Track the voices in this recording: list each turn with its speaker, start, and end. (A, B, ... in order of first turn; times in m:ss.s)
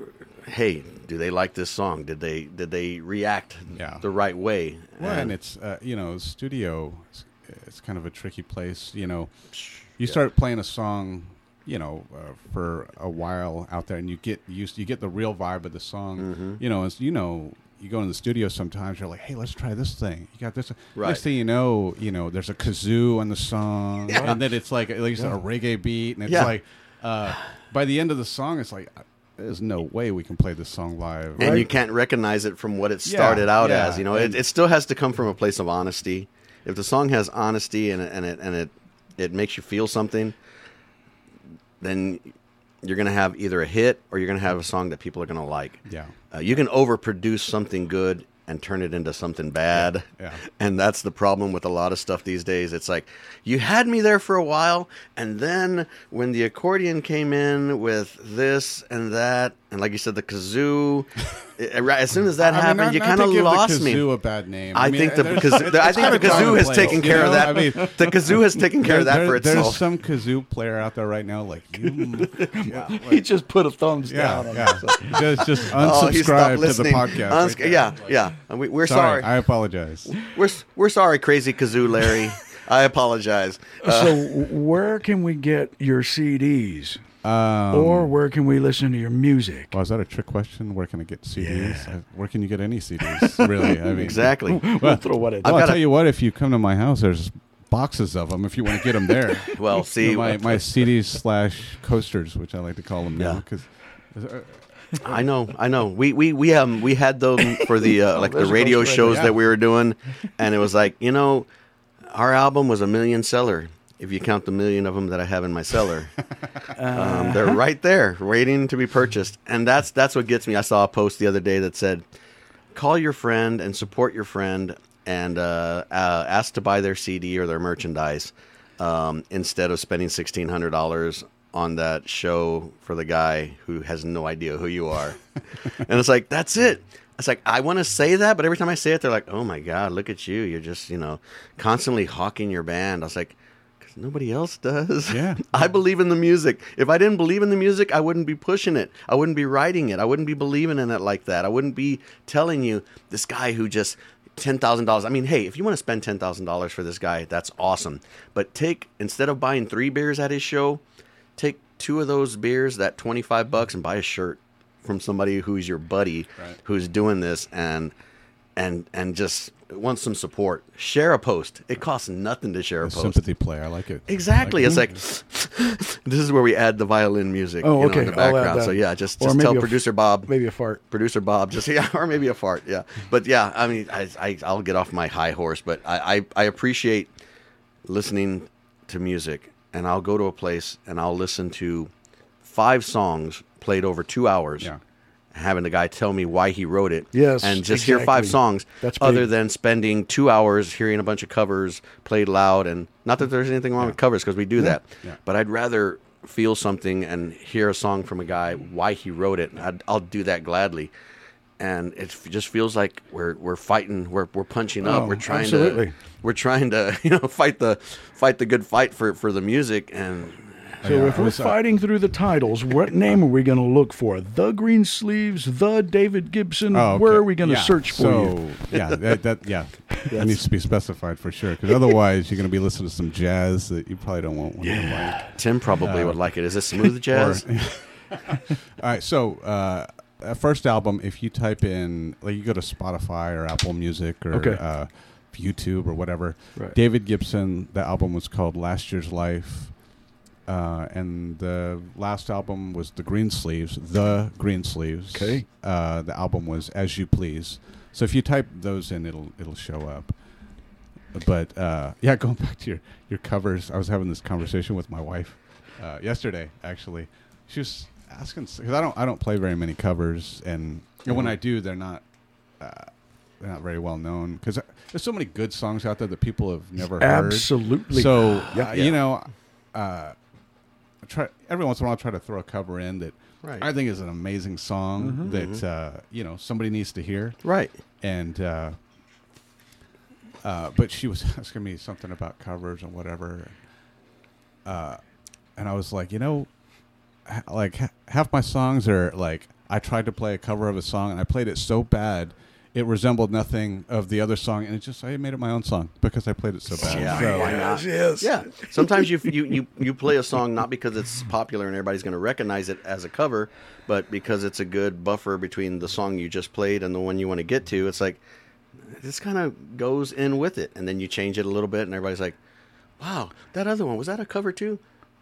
0:00.5-0:05.3 A
0:03.8-0:04.0 B
0:05.0-0:09.3 B
0:09.5-0:10.2 A
0:10.0-0:31.7 B
0:16.2-0:16.6 A
0:21.0-0:21.2 A
0:26.3-0:26.5 A
0:31.4-0:40.4 A
0:31.4-0:31.7 C
0:33.0-0:34.4 B
0:41.8-0:42.3 A
0:42.8-1:04.0 A
0:45.9-0:46.1 B
0:49.7-0:50.4 B
1:02.4-1:13.3 B
1:04.7-1:09.8 A
1:06.2-1:07.7 C
1:11.9-1:15.6 C
1:14.0-1:18.0 B
1:15.7-1:19.3 A
1:18.8-1:20.2 B
1:20.2-1:24.3 A
1:23.8-1:27.0 C
1:27.2-1:28.1 B
1:27.7-1:29.7 C
1:29.7-1:44.6 B
1:31.4-1:31.9 C
1:33.2-1:35.6 C
1:33.9-1:34.6 A
1:35.4-1:35.8 A
1:39.5-1:40.7 A
1:43.2-1:43.4 A
1:45.0-1:51.5 A
1:48.0-1:49.3 C
1:49.0-1:49.3 B
1:52.1-1:56.2 A
1:56.7-1:57.6 C
1:56.9-2:02.0 A
2:02.7-2:15.2 A
2:15.7-2:40.8 A
2:25.1-2:25.6 B
2:41.4-2:47.9 A
2:48.6-2:53.2 A
2:52.8-2:55.0 B
2:54.1-3:00.3 A
2:57.6-3:00.8 C
3:00.9-3:07.1 A
3:07.9-3:11.9 A
3:12.4-3:14.7 A
3:15.3-3:30.9 A
3:17.1-3:19.3 C
3:31.6-3:40.8 A
3:34.8-3:35.9 C
3:40.8-3:41.6 B
3:40.8-3:48.4 C
3:46.7-3:56.3 B
3:50.1-3:50.4 C
3:54.6-3:55.4 C
3:55.4-3:57.4 A
3:57.1-4:09.8 B
4:04.3-4:04.6 C
4:10.5-4:20.2 B
4:15.1-4:15.4 C
4:21.1-4:32.0 B
4:32.6-4:40.2 B
4:37.0-4:38.7 C
4:38.7-4:39.0 A
4:41.0-4:47.4 B
4:45.0-4:45.3 C
4:45.2-4:45.6 A
4:47.4-4:47.7 A
4:48.0-4:48.8 B
4:50.4-4:53.6 B
4:54.6-4:55.0 B
4:55.6-4:56.5 B
4:57.2-5:07.7 B
5:06.8-5:09.3 C
5:06.8-5:18.2 A
5:19.0-5:22.4 A
5:23.0-5:24.8 A